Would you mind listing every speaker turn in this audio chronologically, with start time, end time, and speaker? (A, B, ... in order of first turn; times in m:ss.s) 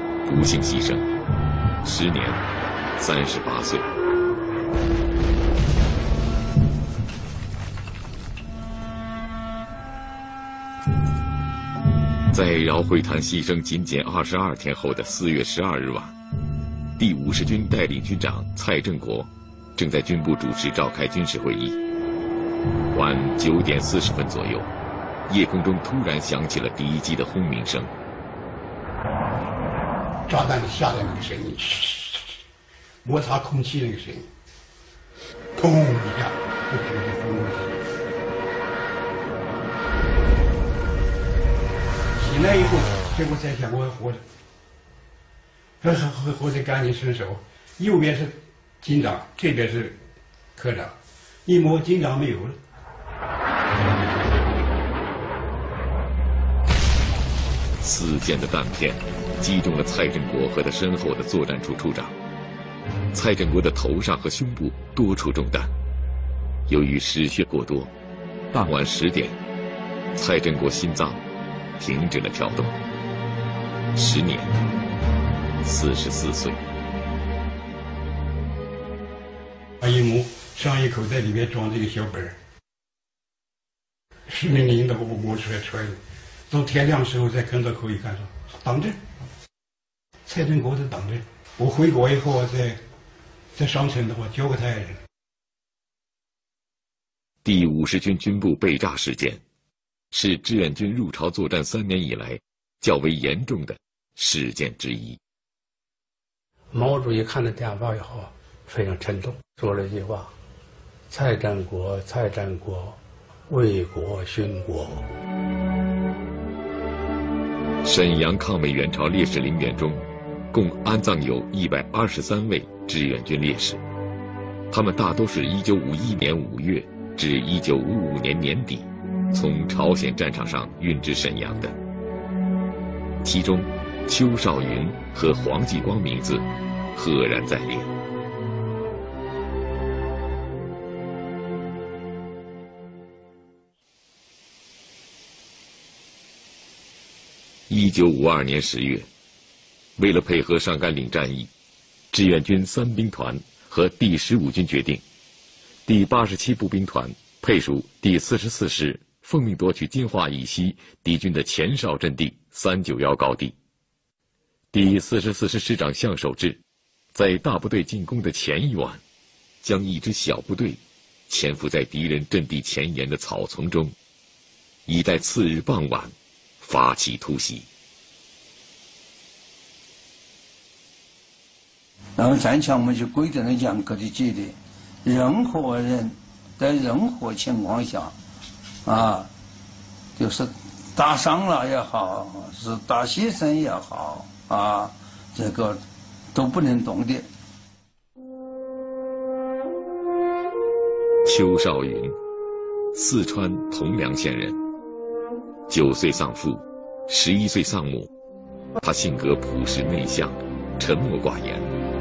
0:00.2-0:01.1 A
0:01.8-0:02.4 A
0:03.0-0:03.9 A
0:12.3-0:16.1 A
0:17.0-0:21.8 A
0:22.9-0:24.7 A
0:25.3-0:27.9 A
0:30.3-0:32.2 B
0:33.0-0:34.3 B
0:35.6-0:37.8 B
0:42.1-0:44.2 B
0:45.8-0:50.0 B
0:50.6-0:50.9 B
0:51.4-0:52.6 B
0:57.8-1:02.1 A
1:03.1-1:05.7 A
1:06.7-1:07.9 A
1:08.5-1:09.4 A
1:10.1-1:11.2 A
1:11.8-1:12.8 A
1:13.9-1:14.5 A
1:15.6-1:16.6 A
1:19.8-1:22.4 B
1:24.3-1:29.0 B
1:30.3-1:32.8 B
1:33.5-1:35.0 B
1:37.4-1:39.4 A
1:40.1-1:45.2 A
1:46.7-1:50.3 C
1:51.1-1:55.1 C
1:57.8-2:03.8 A
2:04.7-2:11.8 A
2:13.2-2:17.9 A
2:27.7-2:29.1 A
2:30.0-2:31.5 A
2:32.1-2:35.0 A
2:35.9-2:43.5 A
2:44.7-2:46.6 A
2:47.1-2:49.0 A
2:49.6-2:53.9 A
2:54.9-2:57.6 A
3:02.2-3:08.1 D
3:08.8-3:09.3 D
3:10.2-3:15.8 D
3:16.3-3:17.3 D
3:21.2-3:22.2 A
3:22.9-3:24.6 A
3:25.7-3:28.1 A
3:28.8-3:31.7 A